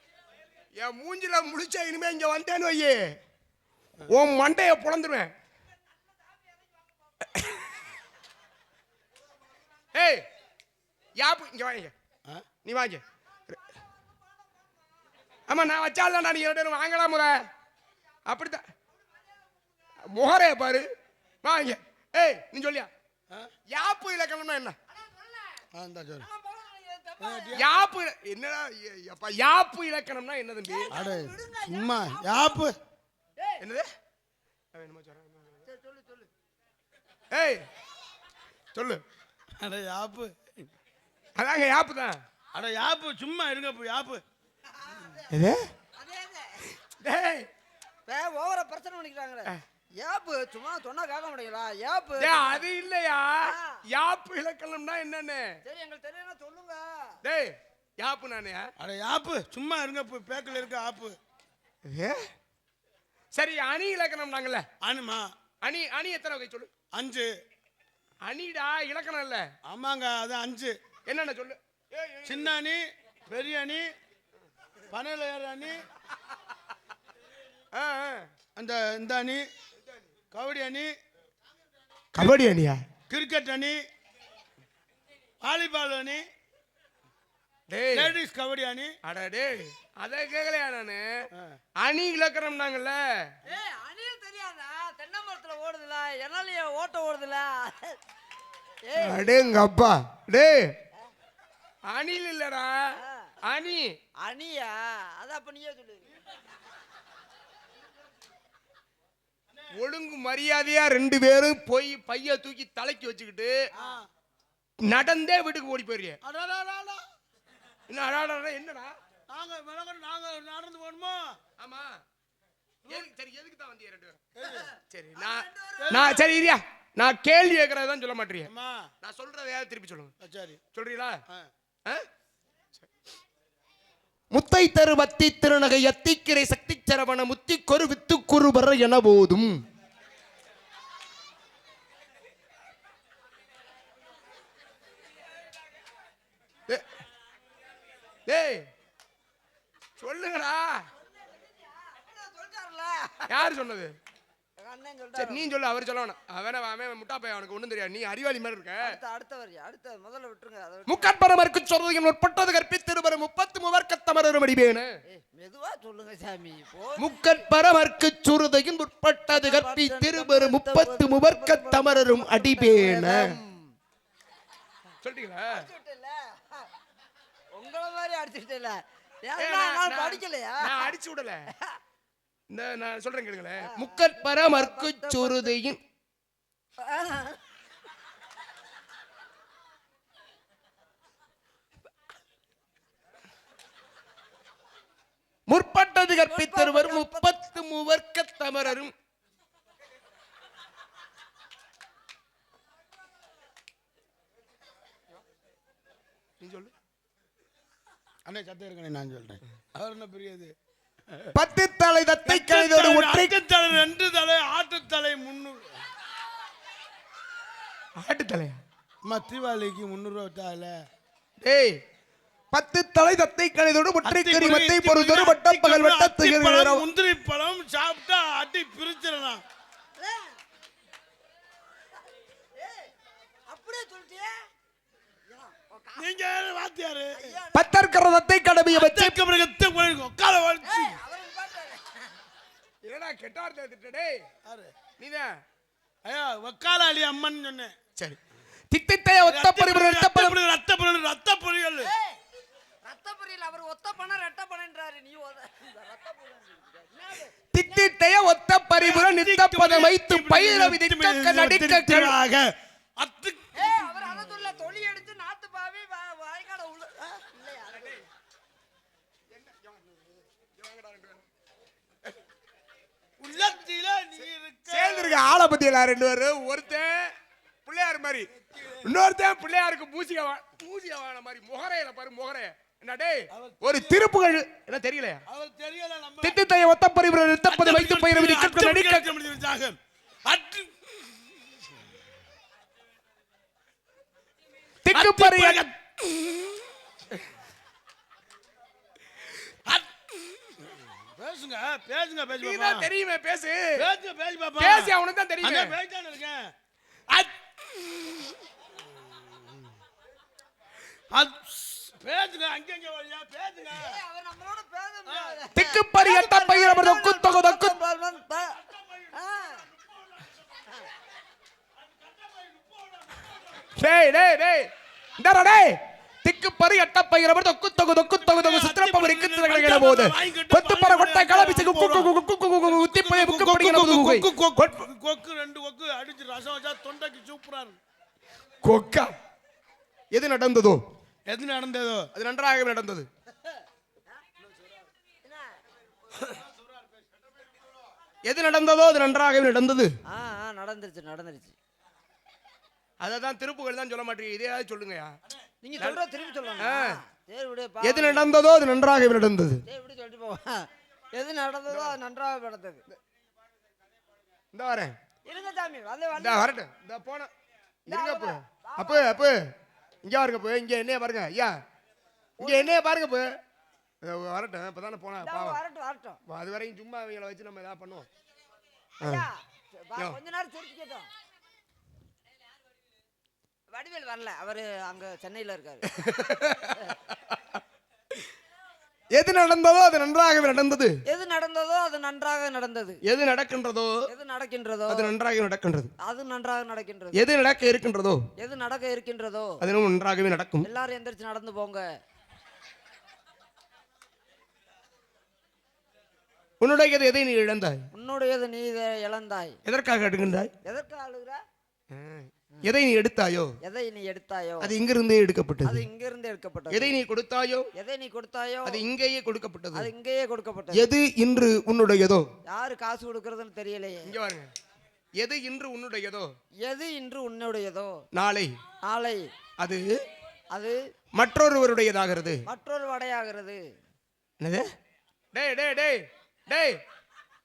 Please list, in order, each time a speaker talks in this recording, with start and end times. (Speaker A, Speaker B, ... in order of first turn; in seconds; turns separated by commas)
Speaker A: 0.8-3.2, Speaker A: 4.1-5.3, Speaker A: 7.3-7.6, Speaker A: 9.9-10.3, Speaker A: 11.2-11.9, Speaker A: 12.6-13.0, Speaker A: 15.5-17.5, Speaker A: 18.3-18.6, Speaker A: 20.1-20.9, Speaker A: 21.4-22.9, Speaker A: 23.7-24.8, Speaker B: 24.9-25.6, Speaker C: 25.7-26.3, Speaker B: 26.2-27.6, Speaker C: 27.2-27.7, Speaker A: 27.6-30.9, Speaker B: 30.7-32.6, Speaker C: 30.9-32.8, Speaker A: 33.6-33.9, Speaker A: 34.7-35.6, Speaker B: 35.7-36.3, Speaker A: 37.3-37.7, Speaker A: 38.7-39.0, Speaker C: 39.6-40.7, Speaker A: 41.4-42.2, Speaker C: 42.5-44.2, Speaker B: 44.8-45.3, Speaker A: 45.3-45.7, Speaker B: 45.9-46.7, Speaker A: 46.9-47.5, Speaker B: 48.1-52.6, Speaker A: 52.2-55.5, Speaker B: 53.4-53.8, Speaker B: 55.6-57.2, Speaker A: 57.2-58.7, Speaker C: 58.8-61.2, Speaker A: 61.9-62.3, Speaker A: 63.3-64.7, Speaker C: 64.8-65.3, Speaker A: 65.6-66.7, Speaker C: 66.9-67.3, Speaker A: 68.3-69.5, Speaker C: 69.7-70.8, Speaker A: 71.1-72.5, Speaker C: 72.2-73.9, Speaker C: 74.9-75.8, Speaker A: 77.7-78.3, Speaker C: 78.6-79.5, Speaker A: 79.8-80.1, Speaker C: 80.3-81.0, Speaker A: 82.2-82.8, Speaker C: 83.1-83.8, Speaker C: 85.4-86.3, Speaker A: 87.7-88.1, Speaker C: 87.9-88.9, Speaker A: 89.0-91.3, Speaker A: 91.8-93.3, Speaker B: 93.5-98.0, Speaker B: 98.8-99.5, Speaker A: 99.0-100.7, Speaker A: 101.9-103.9, Speaker B: 103.0-103.3, Speaker B: 104.2-106.1, Speaker A: 109.7-113.5, Speaker C: 113.8-114.1, Speaker A: 114.8-116.2, Speaker C: 116.2-117.0, Speaker A: 117.9-119.0, Speaker C: 119.3-121.4, Speaker A: 121.6-122.0, Speaker A: 122.8-124.2, Speaker C: 124.3-124.7, Speaker B: 124.5-126.2, Speaker A: 124.9-128.5, Speaker C: 125.8-126.2, Speaker C: 128.4-128.9, Speaker A: 129.0-130.1, Speaker C: 130.2-130.6, Speaker A: 130.7-131.2, Speaker A: 134.3-139.6, Speaker A: 148.3-148.7, Speaker A: 150.0-150.9, Speaker B: 151.4-153.4, Speaker A: 153.3-153.9, Speaker B: 154.6-155.5, Speaker A: 155.2-159.0, Speaker B: 158.8-161.1, Speaker A: 160.9-164.9, Speaker B: 165.1-167.4, Speaker A: 167.0-173.3, Speaker B: 169.3-173.7, Speaker A: 175.0-175.7, Speaker B: 175.5-176.7, Speaker B: 177.6-180.9, Speaker A: 179.4-181.5, Speaker B: 181.5-181.8, Speaker A: 182.5-185.8, Speaker B: 183.6-185.6, Speaker B: 186.8-187.4, Speaker A: 195.5-198.9, Speaker B: 196.2-197.3, Speaker A: 206.4-206.7, Speaker C: 208.3-210.6, Speaker C: 211.1-211.3, Speaker A: 211.3-213.3, Speaker C: 212.2-215.8, Speaker A: 218.0-218.6, Speaker C: 219.1-220.8, Speaker A: 221.4-221.8, Speaker A: 222.5-226.8, Speaker C: 224.0-229.4, Speaker B: 230.0-230.3, Speaker B: 232.6-232.9, Speaker B: 233.5-234.4, Speaker B: 235.3-236.1, Speaker C: 236.0-237.4, Speaker B: 237.1-237.7, Speaker A: 237.5-239.2, Speaker C: 238.7-241.0, Speaker B: 240.6-242.1, Speaker A: 242.8-244.2, Speaker C: 244.4-244.7, Speaker A: 245.0-245.4, Speaker C: 246.1-247.8, Speaker A: 248.7-250.4, Speaker C: 249.2-251.9, Speaker B: 251.8-252.2, Speaker B: 252.8-257.3, Speaker A: 257.5-262.1, Speaker C: 258.8-263.5, Speaker B: 263.6-268.0, Speaker A: 269.3-270.0, Speaker A: 270.6-271.3, Speaker C: 273.2-275.2, Speaker A: 274.7-277.1, Speaker A: 277.7-278.3, Speaker C: 278.3-278.9, Speaker A: 278.8-285.2, Speaker C: 283.3-284.1, Speaker C: 285.3-286.4, Speaker A: 286.2-289.1, Speaker C: 287.5-291.9, Speaker A: 294.8-295.6, Speaker C: 294.9-295.7, Speaker C: 299.6-300.0, Speaker C: 300.6-302.9, Speaker A: 302.3-303.9, Speaker C: 303.8-306.5, Speaker A: 304.6-305.8, Speaker C: 307.1-307.4, Speaker C: 308.8-309.7, Speaker C: 311.1-314.0, Speaker B: 313.7-318.6, Speaker C: 315.1-315.4, Speaker A: 315.6-317.8, Speaker B: 319.1-319.7, Speaker C: 319.8-320.3, Speaker C: 321.8-323.6, Speaker A: 323.8-334.9, Speaker C: 328.1-337.8, Speaker A: 338.6-339.1, Speaker A: 340.1-340.8, Speaker C: 341.3-342.1, Speaker A: 342.1-343.1, Speaker C: 344.4-344.9, Speaker B: 345.2-345.6, Speaker C: 346.2-347.7, Speaker A: 348.2-350.0, Speaker B: 350.1-351.6, Speaker A: 353.0-355.2, Speaker B: 355.6-358.2, Speaker A: 356.6-357.0, Speaker A: 357.8-359.6, Speaker B: 359.7-362.9, Speaker A: 364.5-365.0, Speaker B: 365.3-366.5, Speaker A: 366.2-367.3, Speaker B: 367.9-369.2, Speaker A: 367.9-369.5, Speaker A: 370.0-371.6, Speaker B: 372.4-372.8, Speaker A: 372.4-373.4, Speaker A: 374.0-375.6, Speaker B: 375.2-376.2, Speaker A: 376.3-378.1, Speaker B: 379.0-381.1, Speaker B: 383.7-385.9, Speaker A: 385.9-387.2, Speaker A: 389.1-391.0, Speaker B: 391.1-393.0, Speaker A: 393.1-394.0, Speaker B: 394.1-395.1, Speaker A: 394.9-395.9, Speaker B: 396.0-397.2, Speaker A: 397.2-398.2, Speaker B: 398.4-399.6, Speaker A: 399.6-400.7, Speaker B: 400.6-401.9, Speaker A: 406.6-407.9, Speaker B: 407.9-409.6, Speaker A: 409.7-410.5, Speaker B: 410.6-411.4, Speaker A: 411.9-413.6, Speaker B: 413.6-414.7, Speaker A: 414.6-415.8, Speaker B: 415.6-417.0, Speaker A: 416.7-417.7, Speaker B: 417.8-418.8, Speaker A: 418.7-419.9, Speaker B: 419.7-420.9, Speaker A: 420.7-422.3, Speaker B: 422.5-424.1, Speaker A: 424.1-424.5, Speaker A: 425.2-426.3, Speaker B: 426.6-428.0, Speaker A: 428.1-428.6, Speaker B: 428.9-429.3, Speaker A: 429.6-430.0, Speaker B: 430.5-430.8, Speaker A: 431.1-432.4, Speaker B: 432.5-433.6, Speaker A: 434.4-434.7, Speaker A: 435.3-436.8